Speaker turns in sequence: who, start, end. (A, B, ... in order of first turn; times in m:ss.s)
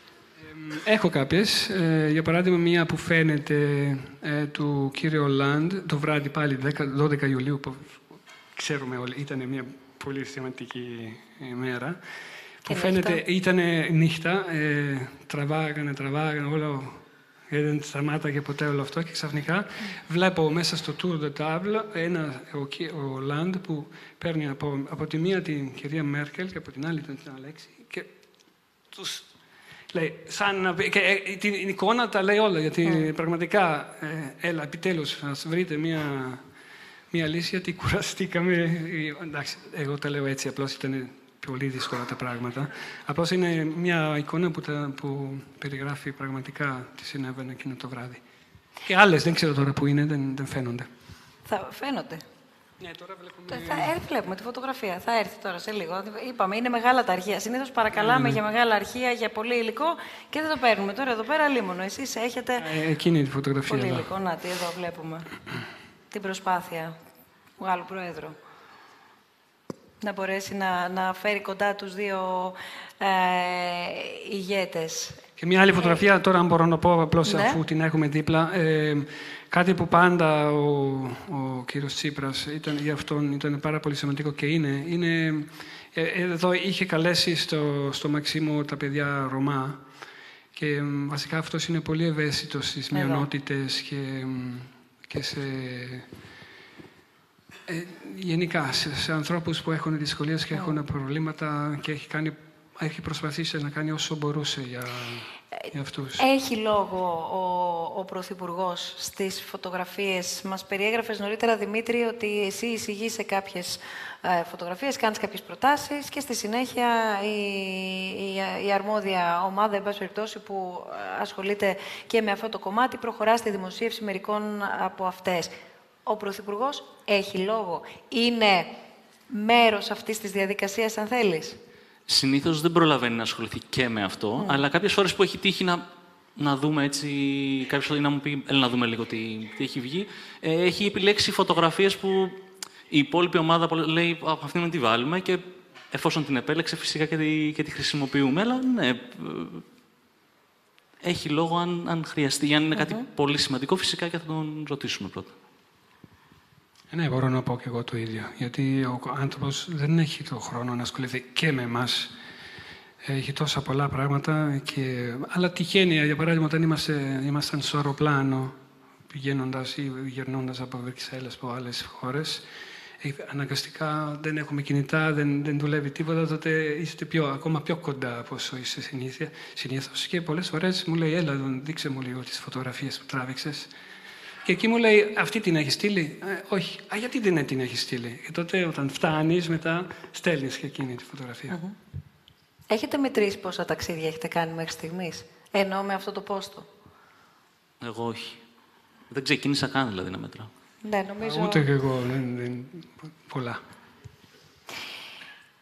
0:00.4-0:08.0 A
0:08.6-0:12.0 A
0:12.6-0:28.1 A
0:12.7-0:13.2 B
0:28.9-0:29.3 A
0:29.9-0:36.4 A
0:37.1-0:48.2 A
0:48.8-0:50.9 A
0:51.5-0:52.2 B
0:52.8-0:53.9 A
0:53.5-1:02.7 B
0:57.9-0:58.4 A
1:02.6-1:04.1 A
1:03.7-1:05.3 B
1:06.1-1:07.0 B
1:07.6-1:08.4 B
1:10.0-1:15.2 B
1:15.4-1:29.8 A
1:15.8-1:16.0 B
1:17.3-1:17.6 B
1:30.6-1:36.1 A
1:32.9-1:33.3 B
1:37.7-1:46.2 A
1:40.5-1:40.8 B
1:45.6-2:05.5 B
2:06.1-2:08.8 B
2:09.3-2:11.6 B
2:12.1-2:22.4 C
2:22.9-2:29.6 C
2:31.0-2:35.3 C
2:32.8-2:33.0 B
2:36.9-2:42.1 A
2:43.0-2:48.6 A
2:49.1-2:52.4 A
2:53.0-3:03.7 A
3:04.4-3:11.6 A
3:11.5-3:11.8 B
3:12.7-3:16.7 B
3:17.8-3:18.4 C
3:19.1-3:20.5 C
3:20.8-3:21.7 B
3:21.2-3:23.6 A